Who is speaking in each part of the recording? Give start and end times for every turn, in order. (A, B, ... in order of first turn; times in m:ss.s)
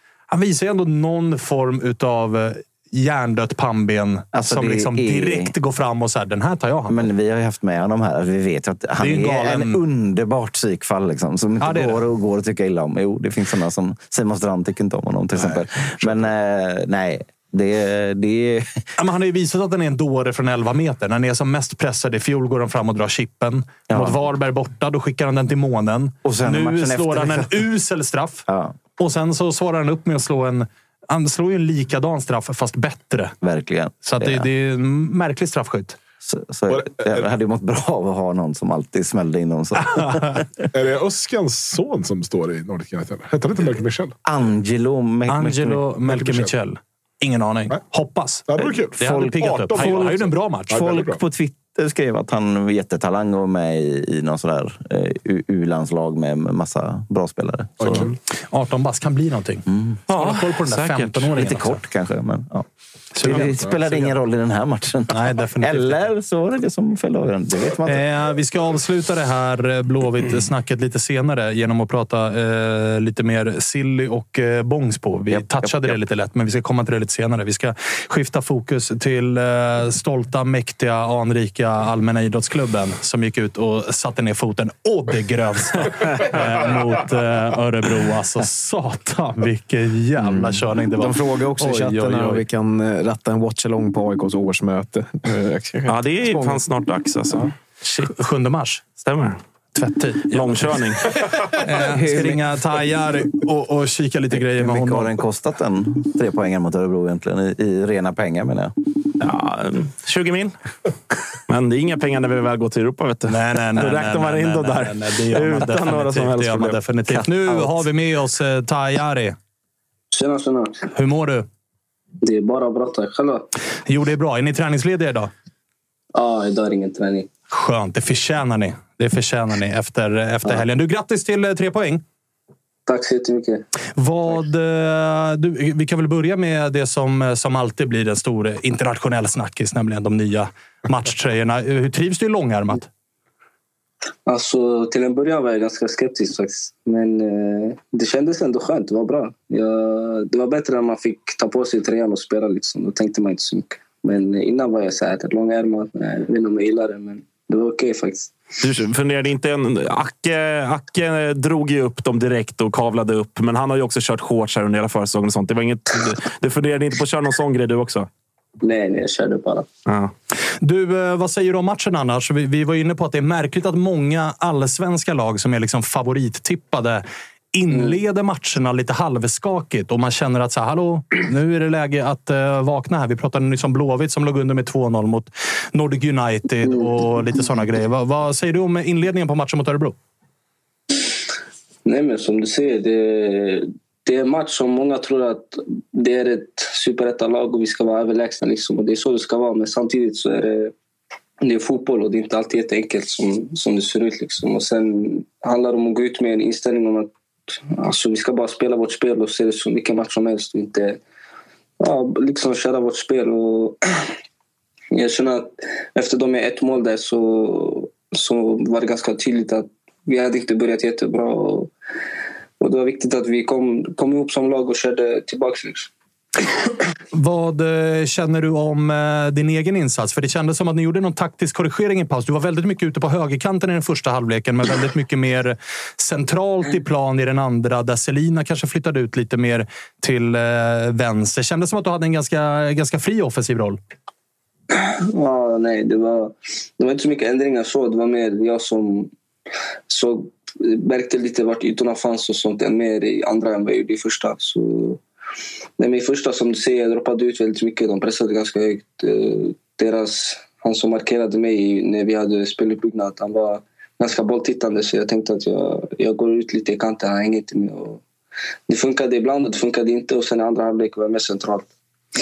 0:00.3-0:07.1 A
0:04.3-0:05.5 B
0:06.9-0:18.8 B
0:09.0-0:09.8 A
0:11.6-0:12.0 A
0:19.0-0:28.5 A
0:23.9-0:24.2 B
0:26.2-0:27.7 B
0:28.5-0:28.8 B
0:29.0-0:33.3 A
0:33.4-0:34.5 B
0:34.0-0:36.0 A
0:36.2-0:40.5 B
0:36.7-0:37.3 C
0:40.7-0:44.2 C
0:44.2-0:45.8 B
0:45.3-0:50.8 A
0:46.1-0:46.5 C
0:48.5-0:51.2 C
0:49.0-0:50.1 B
0:50.7-0:58.1 B
0:57.8-0:58.2 C
0:58.5-1:01.8 A
0:59.7-1:00.0 B
1:00.1-1:01.3 D
1:01.4-1:02.7 B
1:03.1-1:04.1 A
1:03.2-1:08.0 B
1:03.3-1:03.8 C
1:05.1-1:06.0 A
1:07.8-1:32.4 A
1:15.3-1:16.0 B
1:30.2-1:36.7 E
1:35.9-1:37.5 D
1:37.9-1:38.8 A
1:39.0-1:39.4 D
1:39.8-1:40.8 A
1:40.3-1:41.1 D
1:41.6-1:45.1 A
1:41.8-1:42.4 E
1:44.6-1:48.7 B
1:49.2-1:50.6 D
1:51.5-1:57.3 D
1:53.3-1:59.4 A
2:00.1-2:00.8 F
2:01.0-2:01.5 A
2:02.2-2:03.5 F
2:03.9-2:05.3 A
2:06.2-2:07.3 F
2:07.5-2:12.0 A
2:12.9-2:13.7 F
2:14.0-2:22.9 A
2:24.3-2:38.4 F
2:38.6-2:48.1 D
2:48.6-2:49.7 F
2:49.9-2:50.1 D
2:50.6-2:57.0 A
2:57.5-3:10.0 A
2:57.7-2:58.0 F
3:06.6-3:06.9 F
3:11.8-3:20.7 F
3:21.4-3:27.1 F
3:27.7-3:31.0 F
3:31.8-3:33.8 F
3:34.9-3:41.7 F
3:42.6-3:45.9 F
3:47.1-4:03.8 A
4:04.7-4:09.1 F
4:09.9-4:15.0 F
4:15.8-4:28.0 F
4:28.7-4:31.7 F